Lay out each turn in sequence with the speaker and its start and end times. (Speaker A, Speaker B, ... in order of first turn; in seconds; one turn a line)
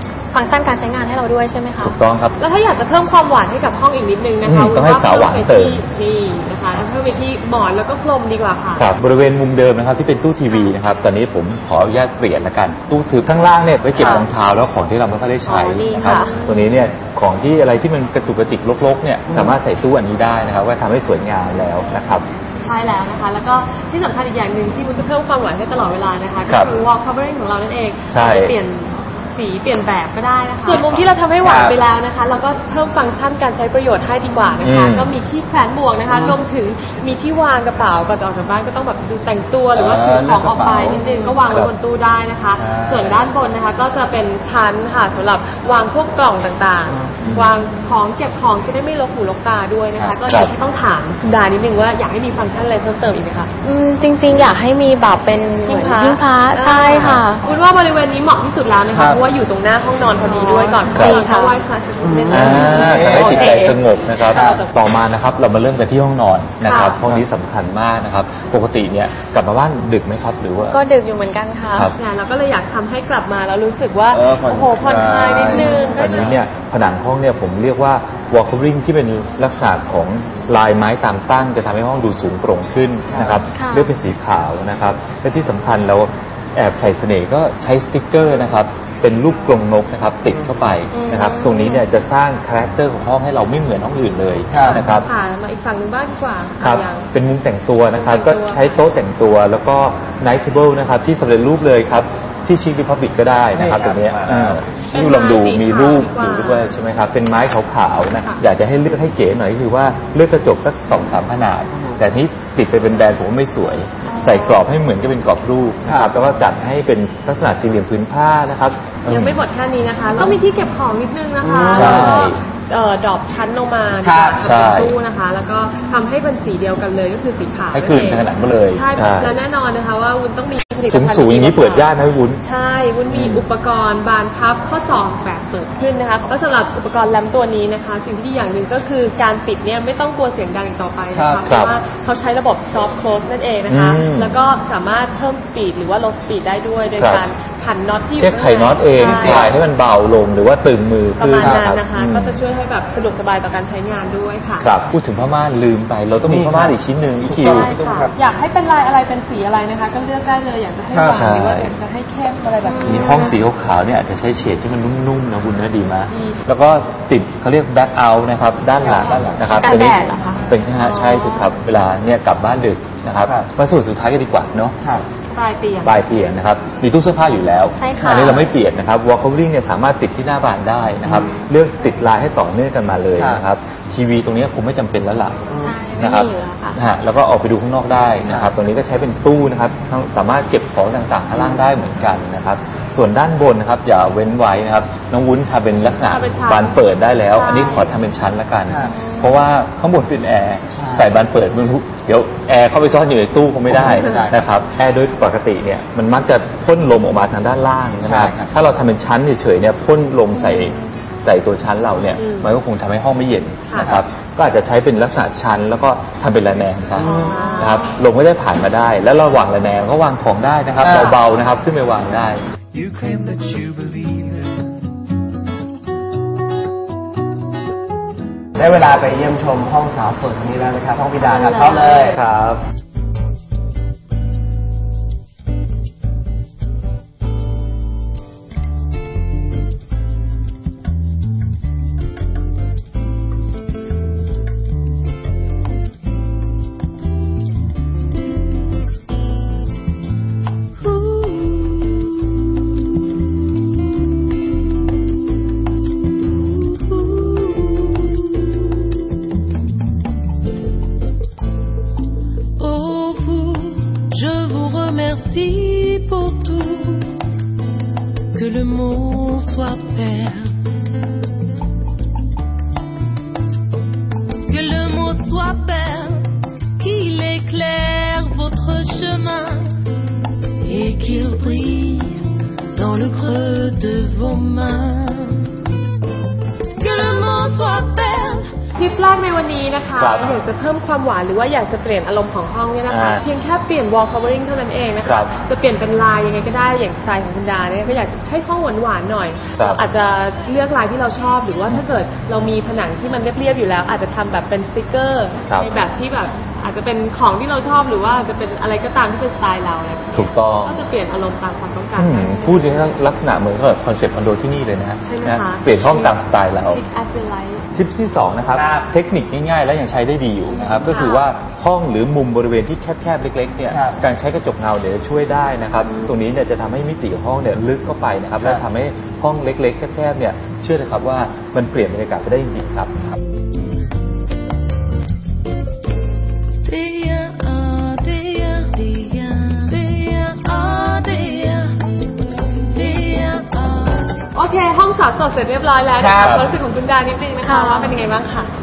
Speaker A: 0.3-2.0
Speaker B: 1.8-2.3
Speaker C: 2.4-8.8
Speaker B: 4.4-5.8
Speaker B: 8.8-22.2
Speaker A: 15.4-16.5
Speaker C: 16.0-16.4
Speaker C: 22.6-53.5
Speaker B: 26.5-26.7
Speaker B: 28.1-28.6
Speaker B: 30.7-31.0
Speaker D: 31.4-31.8
Speaker B: 34.6-35.1
Speaker D: 36.1-36.4
Speaker D: 39.7-41.0
Speaker B: 41.5-41.7
Speaker D: 42.6-43.2
Speaker D: 46.9-47.3
Speaker B: 47.2-47.5
Speaker B: 50.3-50.5
Speaker A: 53.6-57.4
Speaker C: 55.7-64.7
Speaker B: 56.9-57.2
Speaker D: 58.9-59.2
Speaker A: 60.2-61.6
Speaker B: 60.9-61.2
Speaker D: 62.0-63.5
Speaker A: 62.3-63.8
Speaker B: 62.3-70.8
Speaker D: 64.3-64.6
Speaker C: 66.6-67.0
Speaker A: 70.7-71.9
Speaker C: 72.0-76.3
Speaker D: 74.1-76.4
Speaker B: 75.3-95.1
Speaker A: 75.5-76.2
Speaker D: 83.1-83.3
Speaker A: 83.5-83.9
Speaker A: 90.9-91.8
Speaker D: 94.5-94.8
Speaker C: 94.7-97.1
Speaker B: 96.6-119.4
Speaker C: 97.9-98.8
Speaker D: 103.5-104.6
Speaker C: 104.9-106.7
Speaker C: 108.1-108.4
Speaker C: 114.1-114.5
Speaker D: 115.8-116.1
Speaker C: 119.0-149.6
Speaker D: 121.4-122.2
Speaker B: 121.7-122.4
Speaker D: 124.0-124.5
Speaker B: 124.4-124.9
Speaker B: 127.7-129.4
Speaker B: 130.9-132.4
Speaker B: 133.1-133.4
Speaker D: 141.1-141.4
Speaker B: 141.4-141.8
Speaker B: 143.7-144.3
Speaker B: 147.0-147.2
Speaker B: 148.2-152.4
Speaker D: 149.2-149.5
Speaker C: 151.2-154.7
Speaker B: 154.6-157.7
Speaker D: 156.2-158.1
Speaker C: 157.4-163.4
Speaker D: 160.9-161.3
Speaker B: 161.1-161.7
Speaker A: 162.7-163.4
Speaker B: 162.8-174.8
Speaker C: 166.1-166.4
Speaker D: 168.8-169.6
Speaker A: 169.6-171.5
Speaker C: 175.3-175.9
Speaker B: 175.8-185.4
Speaker A: 177.8-178.4
Speaker D: 178.0-178.5
Speaker D: 183.2-183.4
Speaker A: 185.6-186.8
Speaker B: 186.0-222.4
Speaker C: 196.1-197.9
Speaker D: 198.7-198.9
Speaker A: 198.9-199.4
Speaker D: 200.7-201.2
Speaker D: 203.7-204.4
Speaker D: 208.0-208.5
Speaker A: 210.4-210.8
Speaker C: 212.2-212.5
Speaker C: 213.7-213.9
Speaker A: 217.0-217.6
Speaker D: 217.0-217.3
Speaker C: 217.0-217.8
Speaker D: 220.8-221.2
Speaker E: 223.5-223.7
Speaker D: 228.6-232.2
Speaker C: 231.2-232.2
Speaker B: 232.1-232.6
Speaker E: 250.8-252.6
Speaker E: 256.6-258.8
Speaker E: 262.6-267.2
Speaker E: 268.3-270.6
Speaker E: 274.5-279.7
Speaker E: 280.6-285.5
Speaker E: 286.8-288.5
Speaker C: 288.8-312.8
Speaker B: 289.9-290.4
Speaker B: 292.9-293.2
Speaker B: 295.0-295.3
Speaker B: 299.6-299.8
Speaker B: 305.5-305.9
Speaker B: 310.1-310.8
Speaker B: 312.0-316.8
Speaker C: 315.1-317.6
Speaker B: 317.7-333.0
Speaker D: 318.5-318.9
Speaker C: 320.8-321.2
Speaker D: 323.7-324.0
Speaker E: 336.6-341.8
Speaker E: 342.6-344.1
Speaker C: 344.3-348.5
Speaker D: 346.0-346.5
Speaker A: 347.4-348.0